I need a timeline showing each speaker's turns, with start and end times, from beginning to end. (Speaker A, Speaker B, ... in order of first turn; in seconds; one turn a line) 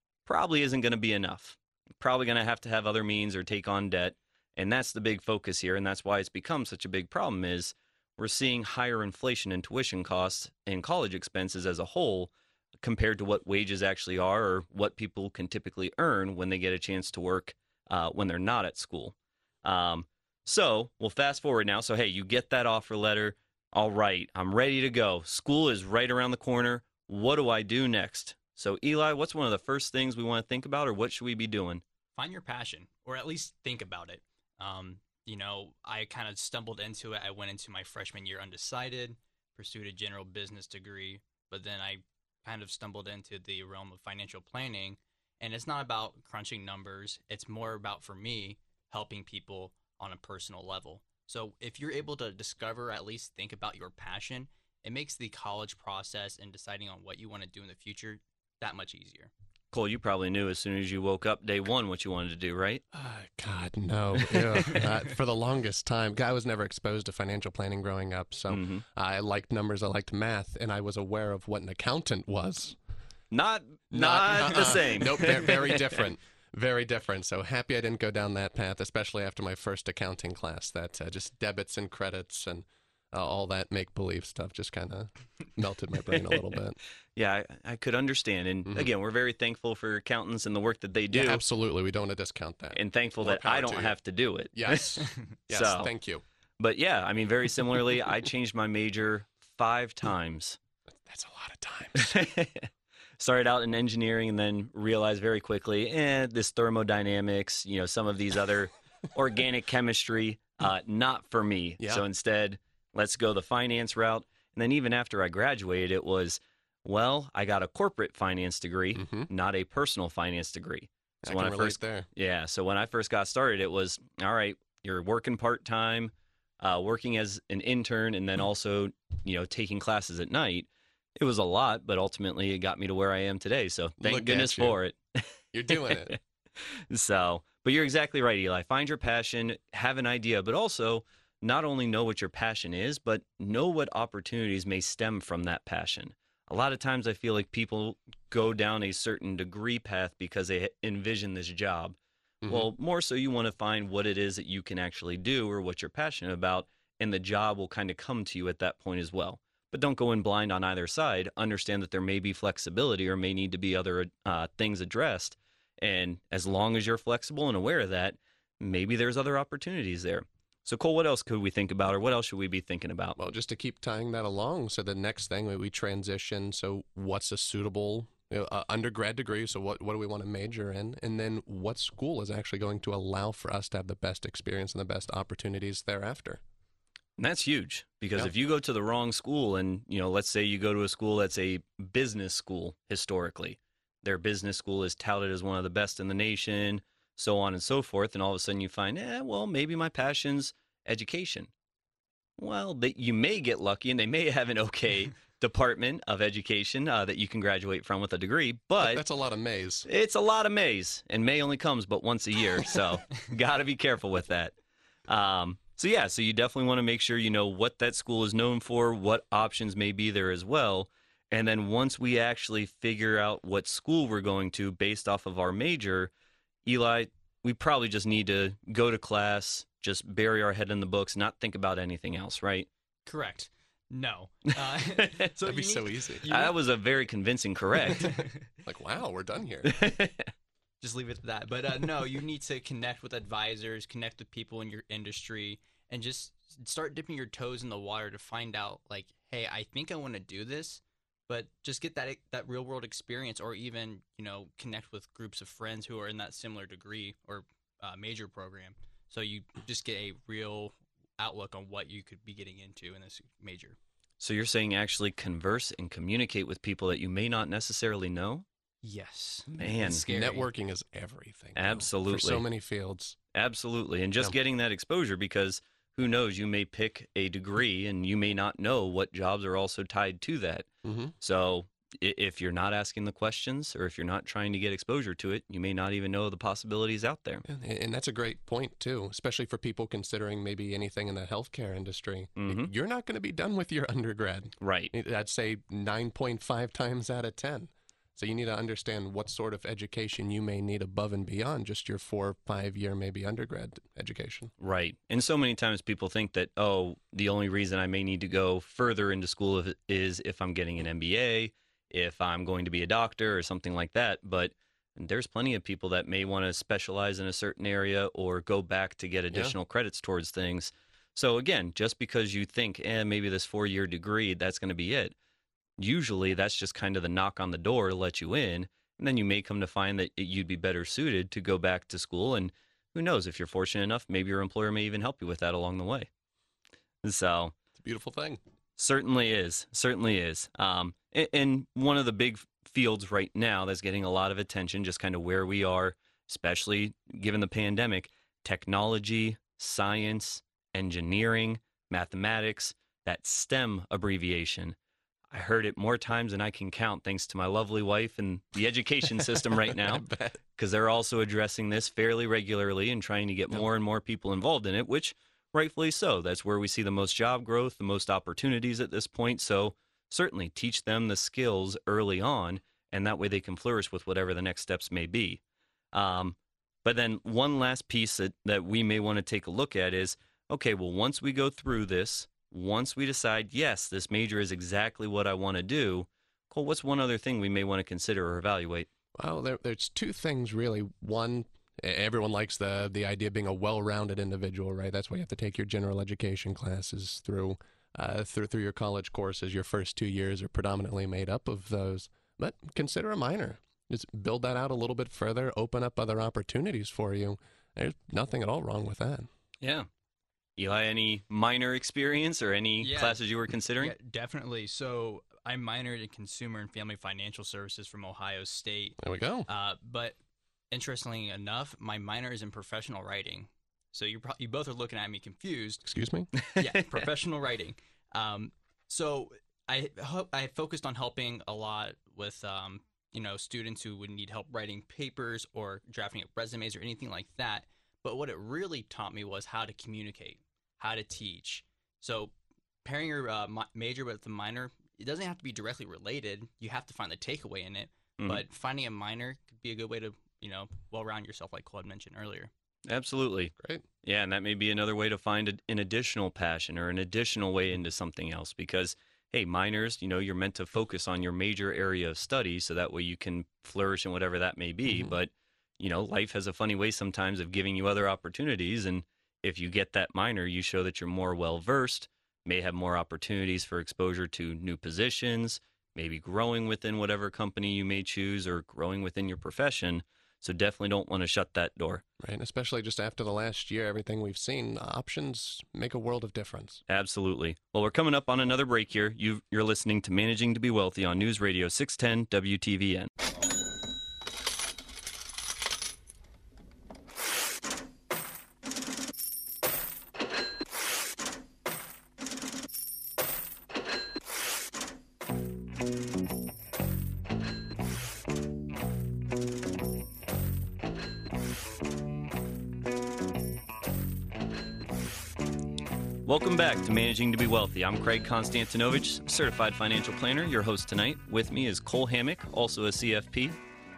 Speaker A: 0.3-31.8
Speaker B: 32.2-59.3
Speaker A: 59.7-62.8
Speaker C: 62.9-72.8
Speaker A: 68.5-68.8
Speaker A: 73.3-76.0
Speaker C: 73.9-86.8
Speaker A: 86.1-86.6
Speaker A: 87.2-91.4
Speaker C: 91.1-94.0
Speaker A: 92.7-95.9
Speaker C: 94.5-96.2
Speaker A: 96.6-100.6
Speaker C: 101.1-102.1
Speaker A: 102.0-173.2
Speaker C: 111.8-112.0
Speaker C: 119.0-119.3
Speaker C: 121.2-122.1
Speaker C: 134.0-134.8
Speaker C: 135.5-136.2
Speaker C: 152.4-152.7
Speaker C: 173.2-186.4
Speaker A: 187.2-201.5
Speaker A: 202.4-209.0
Speaker C: 208.8-209.9
Speaker A: 209.9-214.6
Speaker A: 215.1-226.1
Speaker A: 226.7-232.7
Speaker B: 233.1-236.6
Speaker A: 234.9-235.3
Speaker C: 235.4-236.2
Speaker A: 236.3-238.1
Speaker B: 237.7-238.5
Speaker C: 238.7-239.7
Speaker A: 239.6-240.3
Speaker B: 240.8-263.8
Speaker A: 264.2-268.5
Speaker B: 268.8-270.5
Speaker A: 269.5-270.1
Speaker C: 270.1-273.2
Speaker A: 271.6-272.5
Speaker A: 273.3-280.7
Speaker C: 280.8-281.1
Speaker A: 281.2-287.4
Speaker C: 287.5-304.5
Speaker A: 292.4-292.7
Speaker A: 294.6-294.9
Speaker A: 304.6-325.1
Speaker A: 325.8-336.1
Speaker A: 337.0-337.5
Speaker C: 337.8-338.4
Speaker A: 338.8-354.8
Speaker A: 355.3-375.4
Speaker C: 359.6-360.4
Speaker A: 375.9-388.9
Speaker C: 389.2-409.3
Speaker A: 409.6-409.9
Speaker A: 410.6-414.0
Speaker B: 412.8-413.2
Speaker B: 413.8-420.2
Speaker C: 419.0-419.5
Speaker B: 420.7-425.9
Speaker C: 425.9-426.3
Speaker A: 426.5-427.1
Speaker B: 426.6-442.3
Speaker B: 442.8-452.5
Speaker A: 448.2-448.4
Speaker A: 452.9-482.0
Speaker C: 453.6-453.8
Speaker C: 464.9-465.1
Speaker C: 482.2-486.8
Speaker A: 486.9-493.1
Speaker A: 516.2-523.6